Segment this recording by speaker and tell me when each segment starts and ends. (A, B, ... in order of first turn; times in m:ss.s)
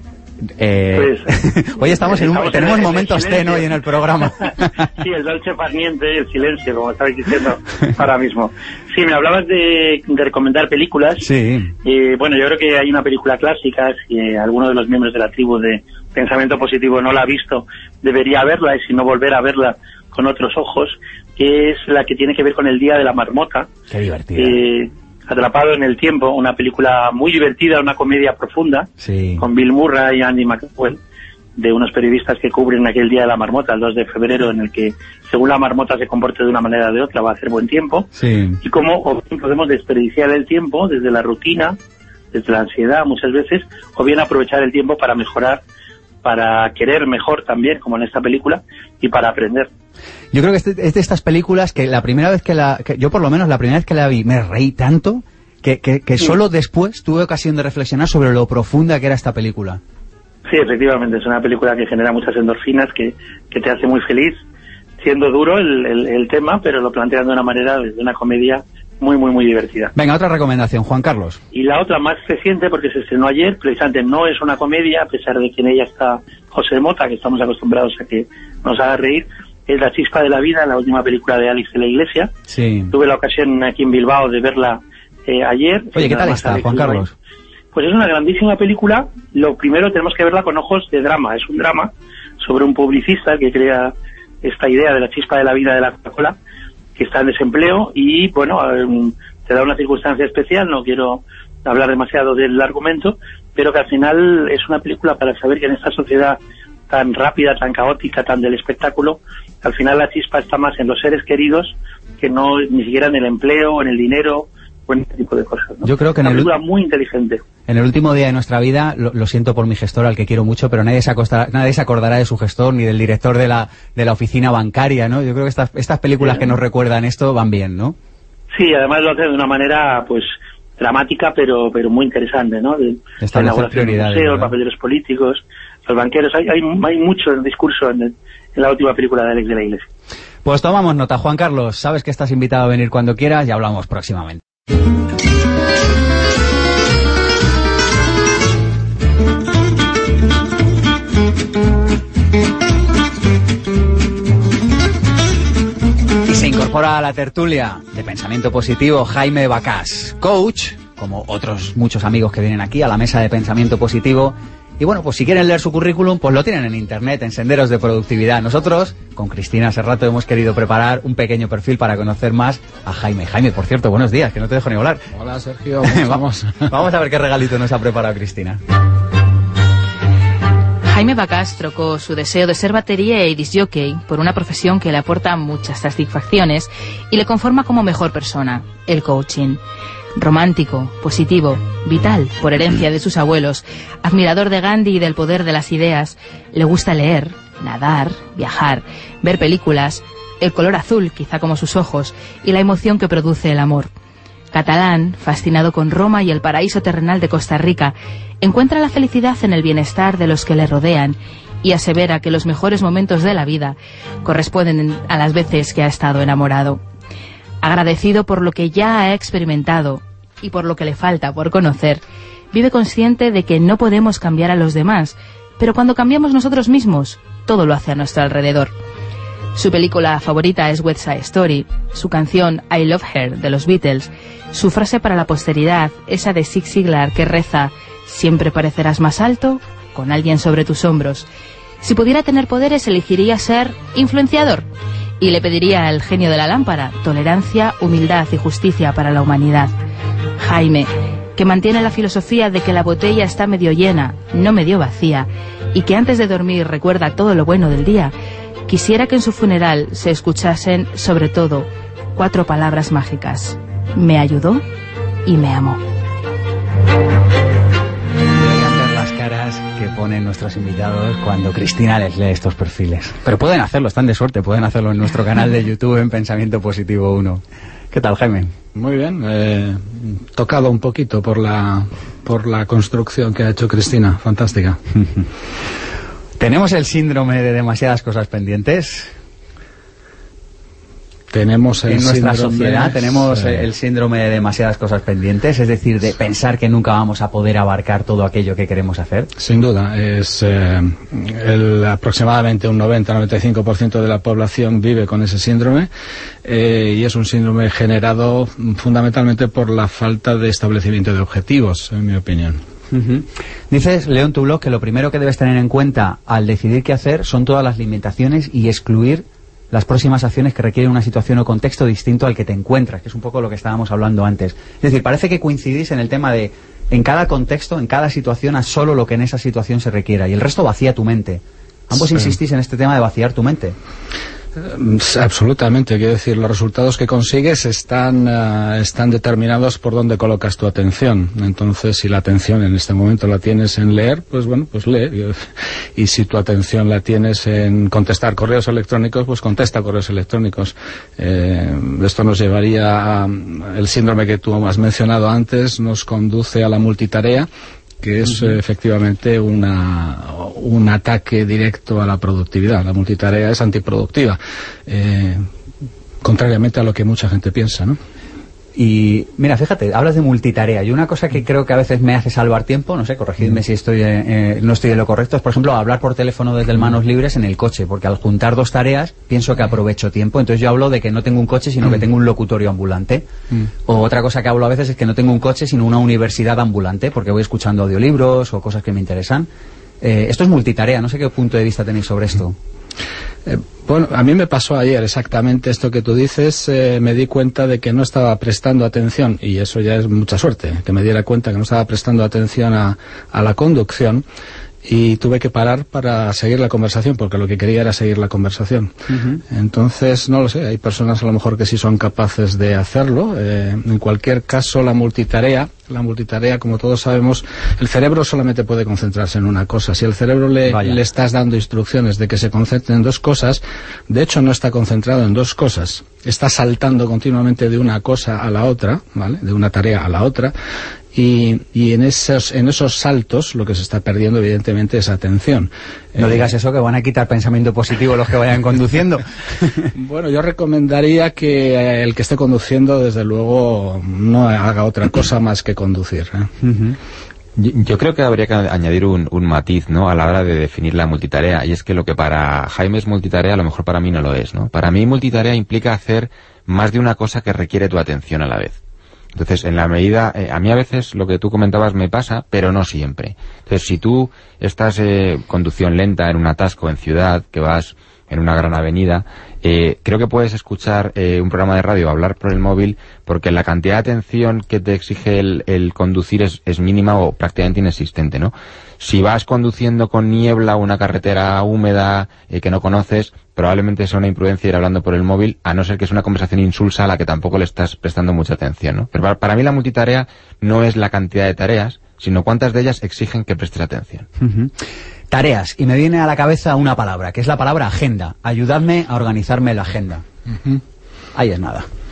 0:00.6-0:04.9 A
0:00.9-0:03.8 B
0:04.4-0:11.3 B
0:11.2-0:11.7 A
0:11.8-0:23.7 B
0:23.9-0:24.6 A
0:24.4-0:31.0 B
0:29.0-0:29.4 A
0:31.6-0:38.1 B
0:38.2-0:38.6 A
0:38.6-0:41.8 B
0:42.3-0:45.6 B
0:46.2-0:49.7 B
0:50.3-0:59.8 A
1:00.5-1:04.4 B
1:05.0-1:09.9 B
1:10.0-1:11.4 A
1:11.5-1:22.3 B
1:22.5-1:22.9 A
1:22.9-1:27.1 B
1:26.0-1:27.1 A
1:27.7-1:36.4 B
1:37.0-1:57.4 B
1:55.8-1:56.5 A
1:57.7-2:08.0 A
2:08.5-2:19.9 B
2:13.2-2:14.5 A
2:20.4-2:24.4 A
2:36.3-2:55.0 A
2:55.1-2:56.7 C
2:55.8-2:58.6 A
3:00.8-3:09.6 D
3:10.2-3:23.9 D
3:24.5-3:36.8 D
3:37.6-3:48.7 D
3:49.6-4:01.3 D
4:01.8-4:04.7 D
4:05.2-4:09.7 D
4:10.4-4:18.1 D
4:18.7-4:24.6 D
4:25.3-4:25.8 D
4:28.4-4:38.5 A
4:38.8-4:44.8 C
4:46.4-4:49.1 A
4:51.3-4:53.7 C
4:51.9-4:59.3 A
4:59.4-5:05.9 C
5:06.4-5:12.6 C
5:12.9-5:33.8 A
5:34.6-5:57.5 C
5:58.0-6:05.5 C
6:06.2-6:08.0 C
6:08.8-6:23.3 A
6:23.9-6:29.5 A
6:30.0-6:32.6 A
6:33.5-6:44.2 C
6:44.8-6:48.9 C
6:49.1-6:49.4 A
6:49.5-7:10.5 C
7:00.7-7:01.0 A
7:11.1-7:16.5 C
7:16.2-7:19.9 A
7:20.0-7:26.5 C
7:26.6-7:27.0 A
7:27.6-7:38.8 E
7:39.3-8:14.3 E
8:14.4-8:14.7 A
8:15.3-8:20.2 A
8:21.4-8:21.9 A